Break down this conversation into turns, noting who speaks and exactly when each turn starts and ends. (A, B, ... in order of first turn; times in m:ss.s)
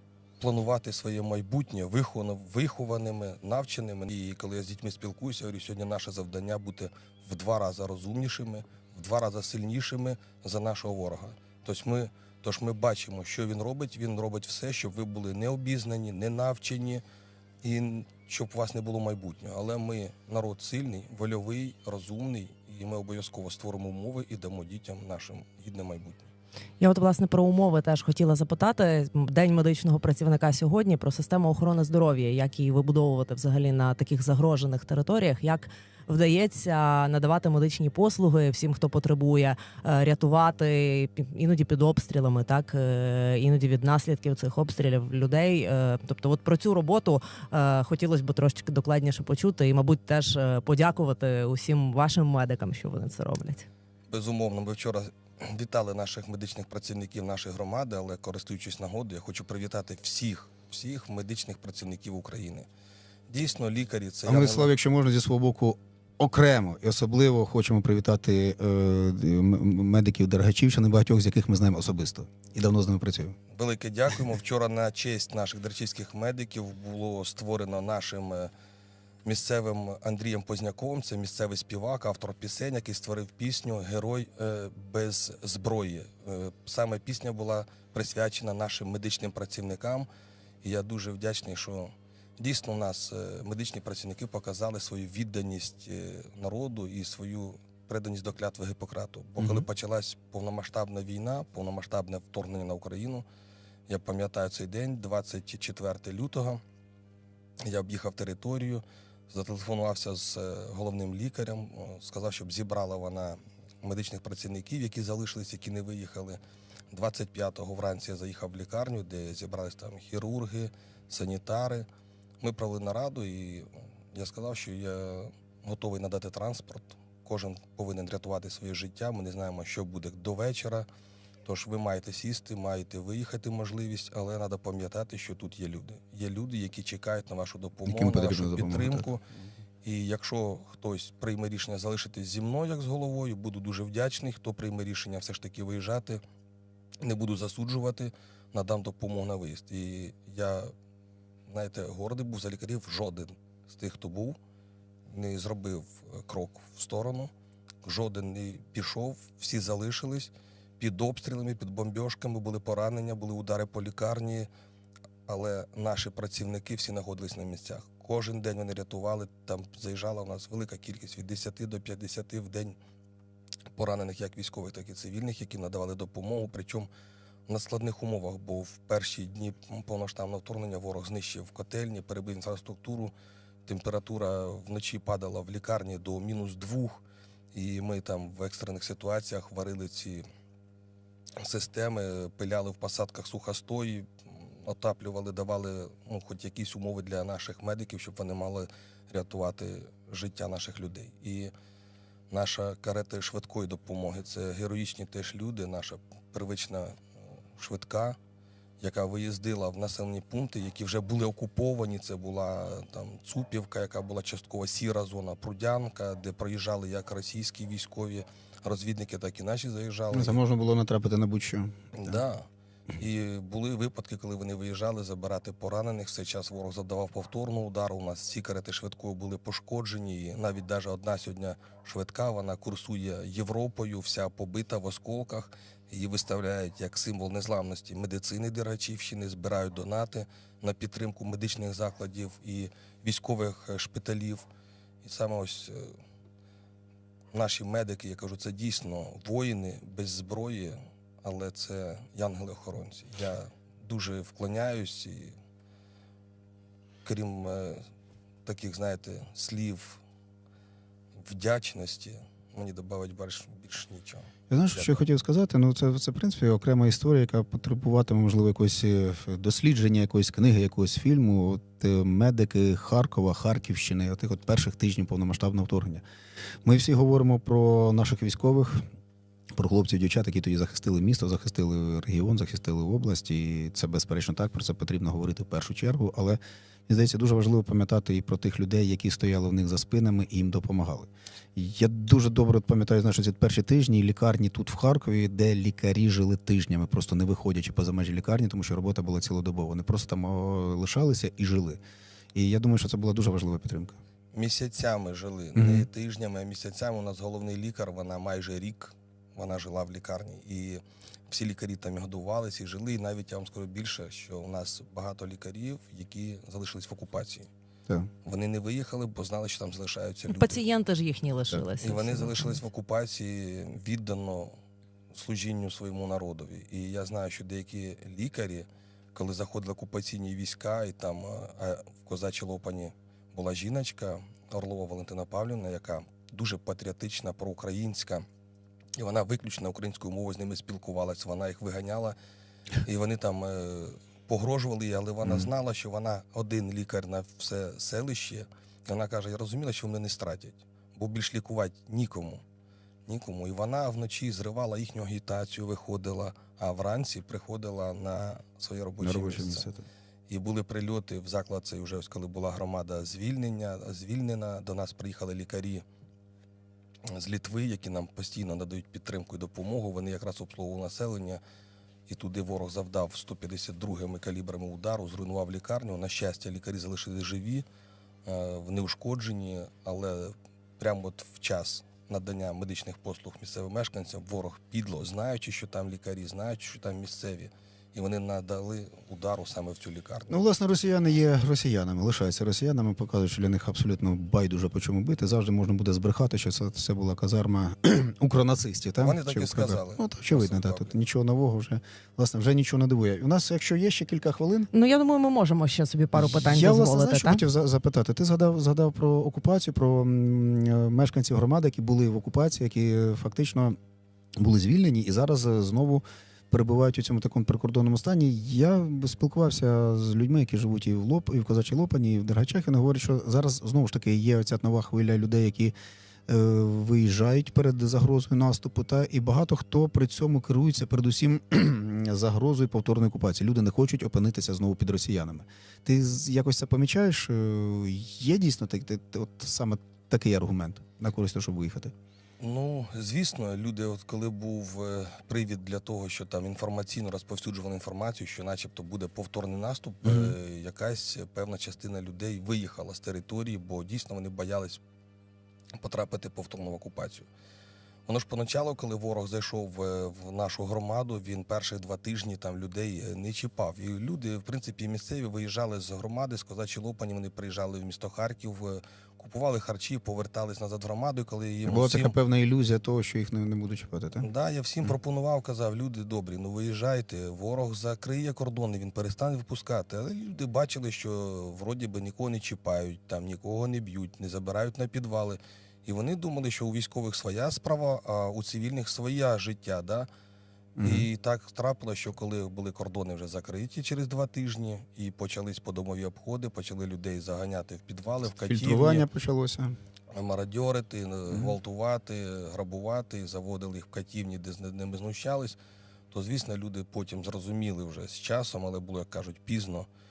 0:00.4-0:17.0 A
0:17.6-0:26.3 A
0:26.8-0:53.7 B
0:54.1-1:02.7 A
1:03.3-1:04.7 A
1:04.3-1:13.4 C
1:13.5-1:18.5 A
1:19.2-1:30.1 A
1:30.6-1:43.2 A
1:39.4-1:39.7 C
1:43.9-1:46.6 A
1:47.6-1:56.4 A
1:56.9-2:01.9 A
2:02.4-2:10.9 A
2:11.4-2:19.2 A
2:17.9-2:19.1 C
2:19.8-2:26.2 A
2:27.0-2:30.7 A
2:31.5-2:34.4 A
2:35.1-2:37.3 A
2:37.8-2:44.5 A
2:45.3-2:52.8 A
2:53.8-2:56.9 A
2:57.5-3:03.1 A
3:03.7-3:07.0 A
3:07.5-3:10.3 A
3:11.4-3:21.5 A
3:22.3-3:27.0 A
3:27.6-3:28.2 A
3:28.8-3:40.4 A
3:40.1-3:42.2 C
3:41.9-3:42.5 A
3:43.0-4:04.5 A
4:05.0-4:06.0 A
4:07.3-4:15.4 A
4:17.0-4:17.8 A
4:18.4-4:20.0 A
4:21.2-4:25.0 A
4:24.5-4:36.0 C
4:36.6-4:38.9 C
4:39.6-5:01.8 C
5:02.4-5:04.0 C
5:04.3-5:17.5 A
5:05.6-5:05.9 C
5:18.2-5:20.6 A
5:20.3-5:22.6 B
5:21.8-5:24.6 A
5:25.1-5:38.3 A
5:39.0-5:42.2 A
5:42.8-5:52.4 A
5:53.1-5:59.7 A
5:59.0-5:59.9 C
6:00.3-6:05.8 A
6:07.0-6:11.4 A
6:12.1-6:17.7 A
6:18.2-6:30.4 A
6:30.3-6:44.7 C
6:39.0-6:41.0 A
6:44.7-6:47.4 B
6:46.2-6:53.8 C
6:54.4-7:05.7 C
7:06.3-7:21.9 C
7:22.4-7:34.8 A
7:30.0-7:30.4 C
7:35.8-7:37.3 A
7:38.1-7:52.2 A
7:51.7-7:54.3 C
7:54.2-8:10.1 A
8:10.8-8:11.1 C
8:10.8-8:19.1 A
8:18.5-8:19.8 C
8:20.1-8:25.6 A
8:26.1-8:29.9 A